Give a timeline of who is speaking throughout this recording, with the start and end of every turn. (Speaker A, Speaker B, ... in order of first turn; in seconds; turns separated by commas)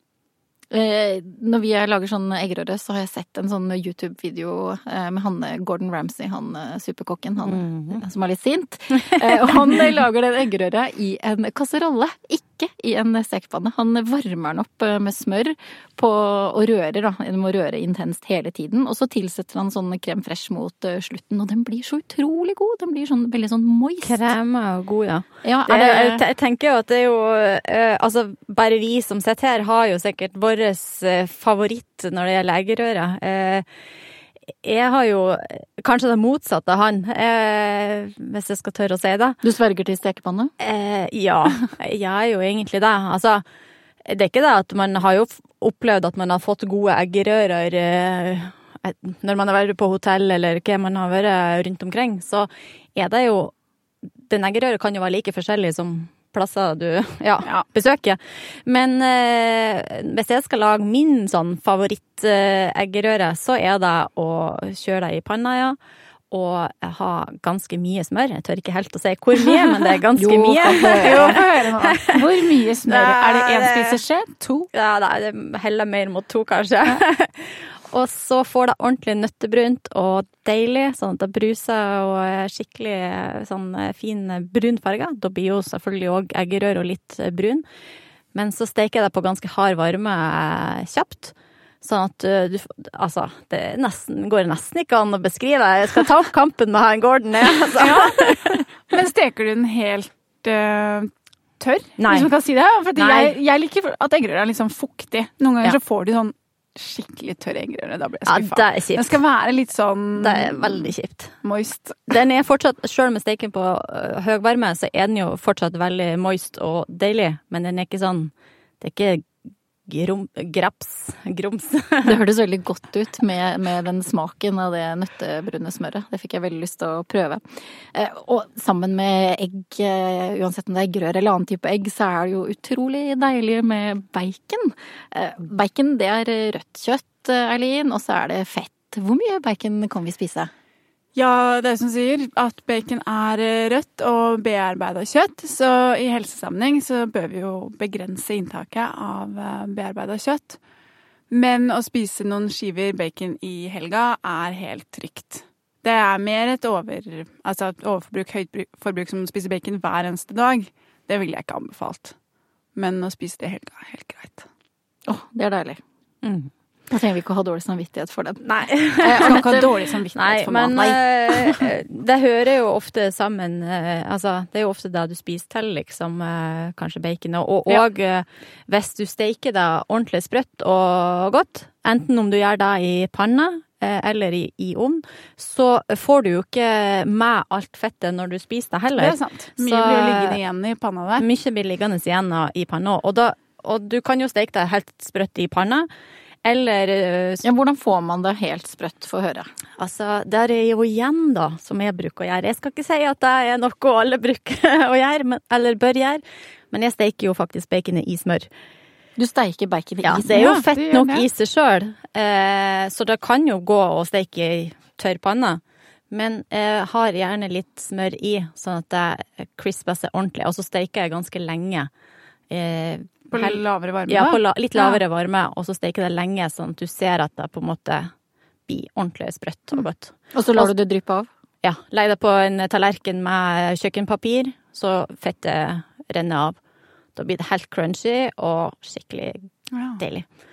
Speaker A: 0.7-24.2, Speaker B: 7.5-8.0, Speaker B: 9.2-9.7, Speaker B: 24.0-33.7, Speaker A: 25.4-26.2, Speaker B: 34.6-39.4, Speaker A: 39.4-40.5, Speaker B: 40.6-43.4, Speaker B: 44.0-53.5, Speaker B: 54.2-65.8, Speaker B: 66.3-74.0, Speaker A: 70.2-71.4, Speaker C: 70.8-74.7, Speaker B: 74.7-87.6, Speaker B: 88.3-98.7, Speaker C: 97.8-110.9, Speaker B: 102.0-102.3, Speaker B: 103.0-103.4, Speaker B: 108.3-109.2, Speaker B: 110.2-111.4, Speaker C: 111.4-112.1, Speaker B: 112.1-119.3, Speaker B: 119.9-122.2, Speaker A: 122.0-140.5, Speaker C: 141.2-150.6, Speaker C: 151.3-162.2, Speaker C: 162.8-164.5, Speaker A: 165.1-165.8, Speaker B: 166.2-166.5, Speaker A: 166.9-169.7, Speaker B: 168.4-169.6, Speaker C: 169.2-171.0, Speaker B: 170.1-190.4, Speaker C: 189.0-191.3, Speaker B: 191.2-195.9, Speaker B: 196.4-197.4, Speaker A: 197.4-199.5, Speaker B: 199.8-208.5, Speaker A: 209.2-210.6, Speaker B: 210.0-221.9, Speaker C: 210.3-211.3, Speaker B: 222.5-228.1, Speaker C: 223.3-225.0, Speaker B: 228.7-230.7, Speaker A: 230.3-231.3, Speaker B: 231.6-236.6, Speaker B: 237.2-239.5, Speaker C: 239.7-240.0, Speaker B: 240.0-240.3